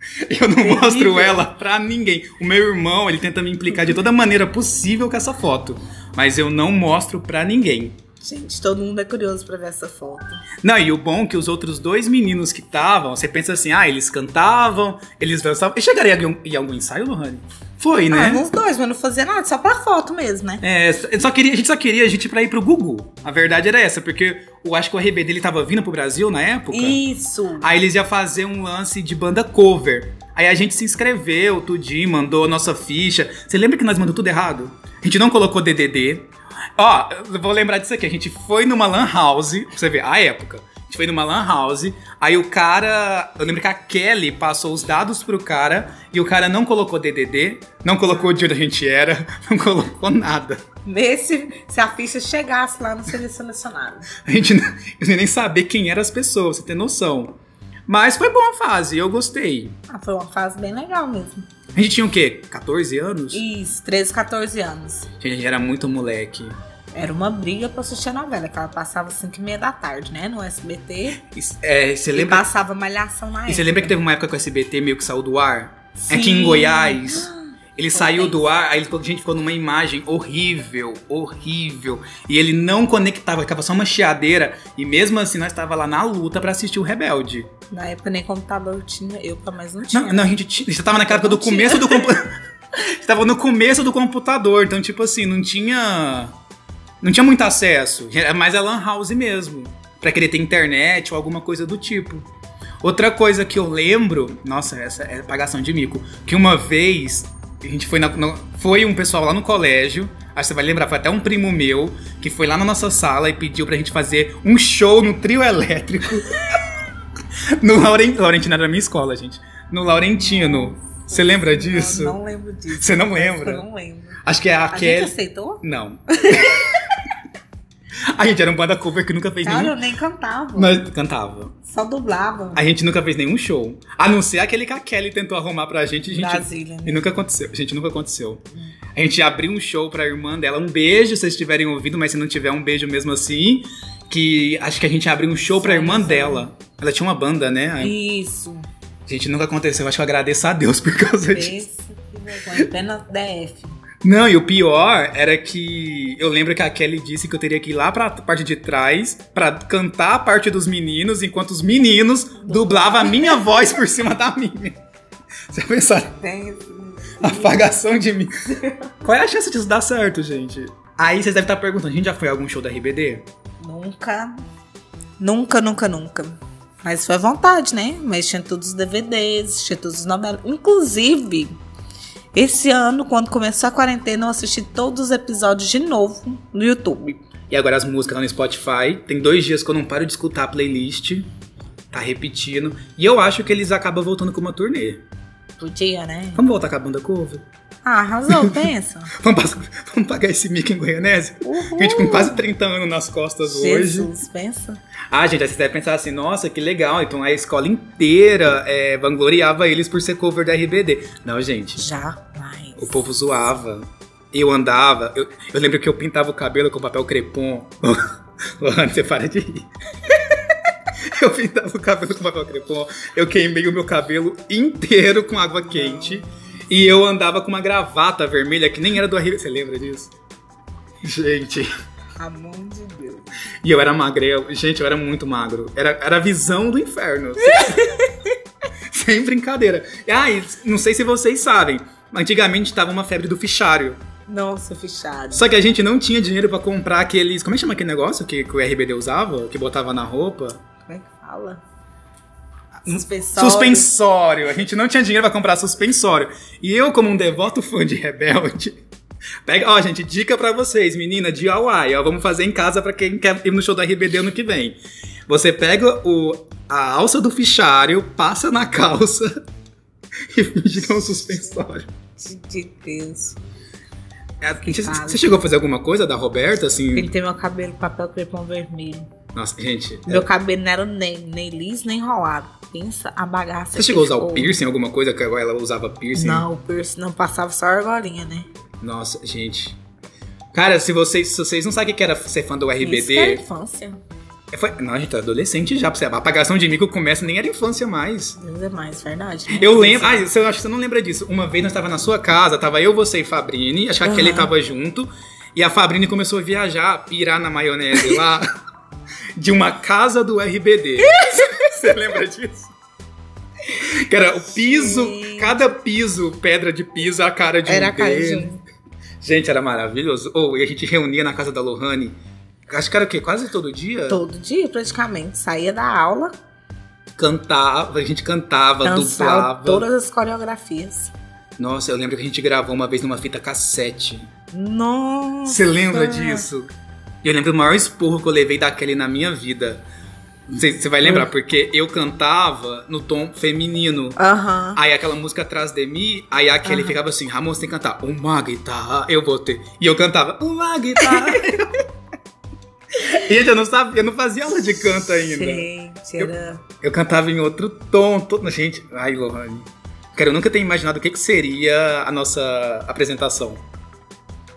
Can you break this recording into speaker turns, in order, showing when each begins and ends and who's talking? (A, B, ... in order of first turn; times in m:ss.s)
0:00.2-0:08.0 A
0:00.6-0:01.4 B
0:08.2-0:10.4 B
0:10.6-0:18.4 A
0:18.1-0:20.6 B
0:20.6-0:27.0 A
0:26.7-0:27.7 B
0:27.6-0:50.6 A
0:48.1-0:48.4 B
0:50.8-0:54.1 B
0:54.2-0:57.3 A
0:57.9-0:59.8 A
0:59.9-1:01.4 B
1:01.7-1:03.4 A
1:03.3-1:05.1 B
1:05.2-1:06.5 A
1:06.9-1:11.2 B
1:11.2-1:12.4 A
1:12.1-1:13.9 B
1:13.5-1:27.5 A
1:16.0-1:17.4 B
1:17.9-1:18.4 B
1:27.7-1:30.3 B
1:29.9-1:36.3 A
1:30.9-1:32.2 B
1:37.0-1:42.2 A
1:42.8-1:56.5 A
1:57.6-2:02.2 A
2:00.2-2:04.2 B
2:02.7-2:03.6 A
2:04.2-2:06.8 A
2:04.7-2:05.6 B
2:06.3-2:06.8 B
2:08.1-2:09.7 A
2:09.4-2:10.8 B
2:10.6-2:11.5 A
2:11.7-2:12.6 B
2:12.5-2:18.4 A
2:16.1-2:17.0 B
2:18.9-2:27.9 A
2:25.5-2:26.5 B
2:27.8-2:28.7 B
2:29.1-2:31.6 A
2:31.2-2:33.8 B
2:34.0-2:44.8 A
2:42.4-2:43.4 B
2:45.5-2:46.1 A
2:46.1-2:47.7 B
2:47.2-2:48.5 A
2:49.0-2:53.2 A
2:53.6-2:54.3 B
2:55.2-3:01.5 B
3:02.3-3:07.2 B
3:07.5-3:11.3 A
3:11.9-3:15.0 A
3:15.6-3:16.4 B
3:16.4-3:17.4 A
3:17.8-3:19.1 B
3:18.3-3:24.1 A
3:21.4-3:22.4 B
3:23.4-3:24.8 B
3:25.1-3:31.8 A
3:31.8-3:33.0 B
3:32.8-3:38.0 A
3:38.6-3:40.2 A
3:41.1-3:50.1 A
3:45.7-3:46.2 B
3:51.0-3:51.7 A
3:52.2-3:53.3 B
3:53.6-3:57.9 A
3:57.4-3:58.1 B
3:58.9-4:04.0 A
4:04.3-4:05.5 B
4:05.3-4:10.6 A
4:10.9-4:11.6 B
4:12.8-4:13.9 B
4:12.8-4:18.8 A
4:19.4-4:24.8 A
4:25.3-4:29.3 A
4:30.3-4:31.9 A
4:32.2-4:33.4 B
4:34.4-4:37.1 A
4:34.6-4:35.4 B
4:36.9-4:39.1 B
4:39.3-4:40.3 A
4:40.0-4:44.6 B
4:43.7-4:46.4 A
4:46.1-4:48.5 B
4:48.8-4:49.8 A
4:50.5-4:53.4 A
4:52.8-4:54.0 B
4:54.5-4:58.4 A
4:58.4-5:00.3 B
4:59.5-5:08.5 A
5:04.0-5:04.5 B
5:09.4-5:12.7 A
5:11.0-5:11.6 B
5:13.8-5:18.6 A
5:14.5-5:15.6 B
5:17.6-5:18.6 B
5:19.2-5:24.2 A
5:24.1-5:26.3 B
5:27.2-5:29.8 A
5:28.8-5:31.1 B
5:31.6-5:34.3 A
5:34.5-5:36.4 B
5:35.4-5:36.7 A
5:37.2-5:39.8 A
5:40.5-5:44.2 A
5:41.0-5:41.3 B
5:44.2-5:44.8 B
5:44.7-5:51.7 A
5:46.6-5:47.0 B
5:51.0-5:51.6 B
5:52.9-5:55.7 A
5:55.2-5:56.6 B
5:56.2-6:03.6 A